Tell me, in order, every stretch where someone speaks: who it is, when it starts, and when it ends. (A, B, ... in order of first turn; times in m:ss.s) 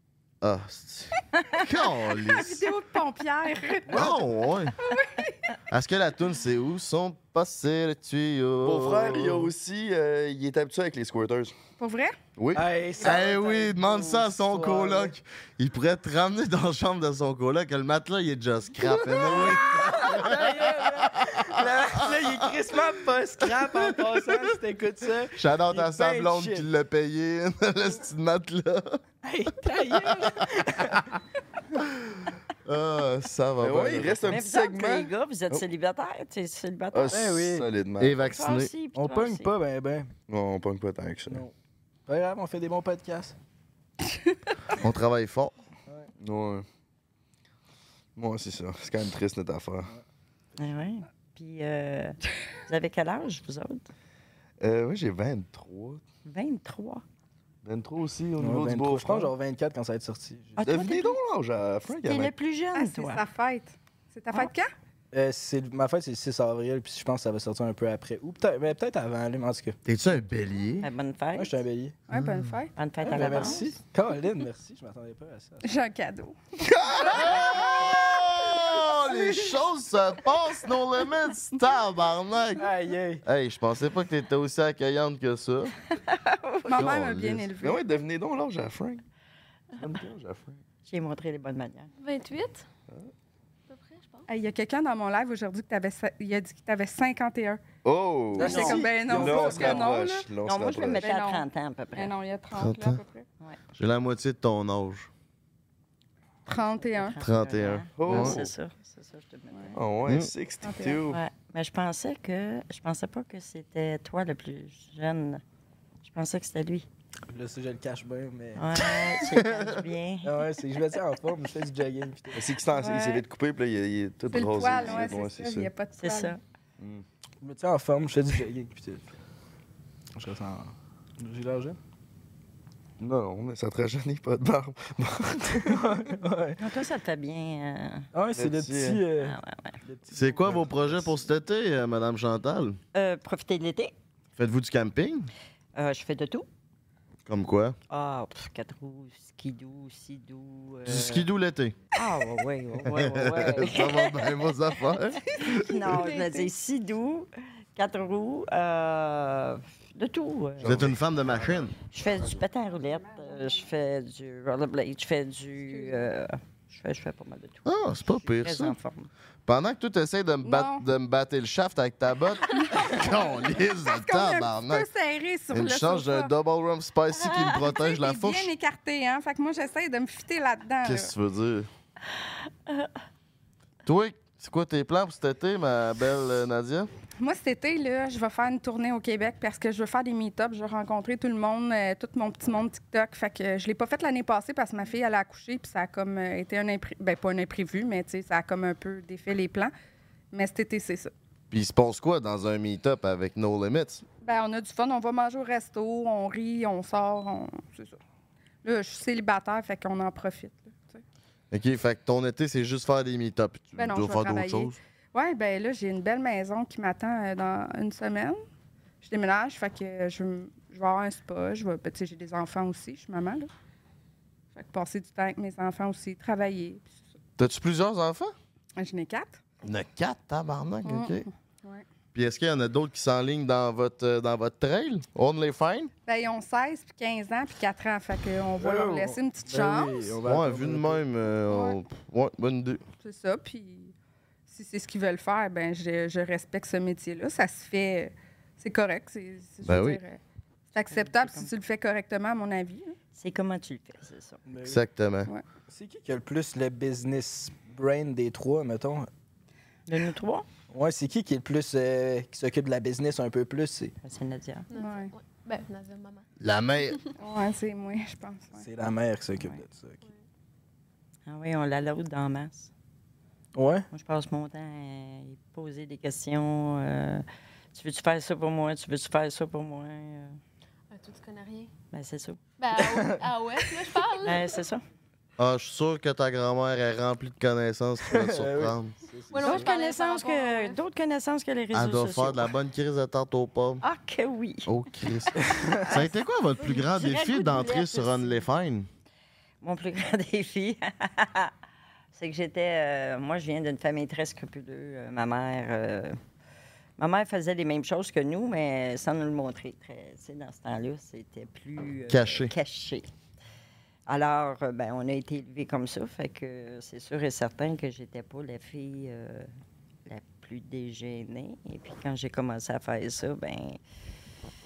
0:00.4-0:02.7 A
0:02.0-0:04.1 B
0:03.9-0:04.7 A
0:04.8-0:05.5 B
0:05.7-0:09.5 A
0:08.6-0:11.5 C
0:11.8-0:12.2 B
0:12.4-0:12.6 C
0:12.6-0:15.1 D
0:13.0-0:22.5 A
0:19.2-0:26.7 D
0:25.3-0:29.0 A
0:29.2-0:31.1 D
0:30.1-0:30.4 A
0:32.6-0:34.2 A
0:33.6-0:35.6 C
0:34.3-0:37.3 E
0:36.9-0:38.2 C
0:37.1-0:37.7 D
0:38.0-0:38.7 A
0:38.3-0:39.5 E
0:38.9-0:40.1 D
0:40.3-0:41.4 C
0:41.3-0:41.5 D
0:42.1-0:43.4 D
0:44.7-0:45.5 A
0:46.2-0:46.6 C
0:48.2-0:49.9 C
0:50.6-0:53.9 E
0:54.6-0:56.0 C
0:56.2-0:57.0 E
0:57.6-0:59.3 C
0:58.4-1:00.6 D
1:00.6-1:01.2 E
1:00.6-1:02.3 C
1:01.9-1:03.3 E
1:02.7-1:04.7 B
1:05.1-1:09.8 D
1:09.8-1:10.9 A
1:10.8-1:11.6 E
1:11.4-1:12.0 D
1:12.1-1:12.7 B
1:12.1-1:12.6 A
1:12.8-1:13.8 E
1:13.0-1:15.6 D
1:15.6-1:17.8 B
1:16.6-1:17.4 C
1:17.1-1:22.7 A
1:22.6-1:23.2 D
1:23.2-1:25.7 A
1:26.1-1:26.9 E
1:26.6-1:27.9 B
1:26.8-1:27.5 A
1:27.6-1:29.0 C
1:29.7-1:30.6 C
1:30.8-1:31.9 E
1:32.0-1:32.6 F
1:33.7-1:34.3 F
1:34.3-1:37.6 B
1:37.8-1:41.1 C
1:38.4-1:39.9 D
1:38.4-1:40.3 B
1:38.4-1:39.0 E
1:40.4-1:42.2 E
1:41.0-1:43.3 B
1:42.5-1:43.0 A
1:43.8-1:45.1 A
1:46.4-1:47.2 B
1:46.5-1:49.8 E
1:47.2-1:48.4 A
1:48.0-1:48.5 C
1:49.5-1:49.8 B
1:49.7-1:51.2 C
1:50.6-1:51.0 B
1:51.1-1:55.4 E
1:56.0-1:56.9 E
1:57.3-1:58.6 D
1:58.6-2:00.4 E
1:59.6-1:59.8 A
2:00.2-2:02.4 D
2:02.3-2:05.7 C
2:02.7-2:03.2 B
2:04.3-2:06.4 B
2:04.6-2:05.0 E
2:06.0-2:06.4 E
2:06.8-2:07.0 C
2:07.4-2:09.1 D
2:10.2-2:11.8 D
2:13.0-2:15.8 C
2:15.6-2:16.6 D
2:16.6-2:18.1 E
2:18.1-2:21.2 D
2:18.4-2:19.0 C
2:19.1-2:19.8 E
2:20.1-2:22.8 A
2:22.9-2:23.9 E
2:24.4-2:25.3 A
2:25.7-2:26.5 E
2:27.3-2:27.8 A
2:27.9-2:31.3 E
2:30.8-2:31.8 A
2:31.9-2:40.9 E
2:32.8-2:35.6 A
2:35.3-2:36.5 B
2:40.6-2:40.9 C
2:40.6-2:41.7 A
2:41.9-2:49.1 E
2:42.6-2:43.7 B
2:45.7-2:46.1 B
2:47.6-2:48.8 A
2:49.5-2:54.9 A
2:50.4-2:50.8 B
2:52.5-2:56.3 B
2:55.5-2:58.5 A
2:57.2-3:01.1 B
2:57.3-2:57.6 E
3:00.8-3:01.7 A
3:03.8-3:06.9 A
3:07.2-3:19.7 B
3:20.3-3:21.1 B
3:21.5-3:24.0 A
3:24.1-3:28.0 B
3:28.6-3:31.0 B
3:31.5-3:34.8 A
3:33.8-3:38.4 B
3:39.0-3:43.5 B
3:44.5-3:46.9 B
3:47.4-3:48.3 A
3:48.8-3:49.4 B
3:49.6-3:51.3 A
3:50.8-3:51.8 B
3:52.1-3:55.9 A
3:56.0-4:00.2 B
3:58.6-4:01.0 D
4:00.2-4:02.8 A
4:01.5-4:01.8 B
4:03.0-4:03.9 B
4:04.5-4:13.0 B
4:09.6-4:10.0 A
4:10.8-4:11.5 E
4:13.1-4:14.4 E
4:14.5-4:14.8 D
4:14.6-4:15.3 A
4:15.7-4:19.1 D
4:19.9-4:20.5 E
4:20.7-4:23.9 D
4:24.0-4:24.7 E
4:24.7-4:26.3 F
4:24.7-4:25.1 B
4:26.4-4:27.0 A
4:27.2-4:28.6 B
4:28.6-4:30.0 D
4:29.4-4:29.6 E
4:31.3-4:32.7 E
4:33.6-4:33.8 D
4:33.9-4:40.4 E
4:40.9-4:41.7 F
4:41.9-4:42.4 E
4:42.6-4:44.6 F
4:42.8-4:43.2 D
4:44.2-4:44.8 E
4:45.4-4:48.9 A
4:48.1-4:49.7 D
4:49.3-4:50.8 F
4:49.4-4:52.5 E
4:51.7-4:53.8 A
4:53.8-4:54.7 E
4:54.6-4:58.9 A
4:55.4-4:55.9 D
4:55.8-4:58.4 E
4:59.6-5:01.5 E
5:02.1-5:06.2 E
5:07.0-5:13.1 E
5:12.1-5:12.5 A
5:14.1-5:19.5 E
5:20.0-5:23.8 E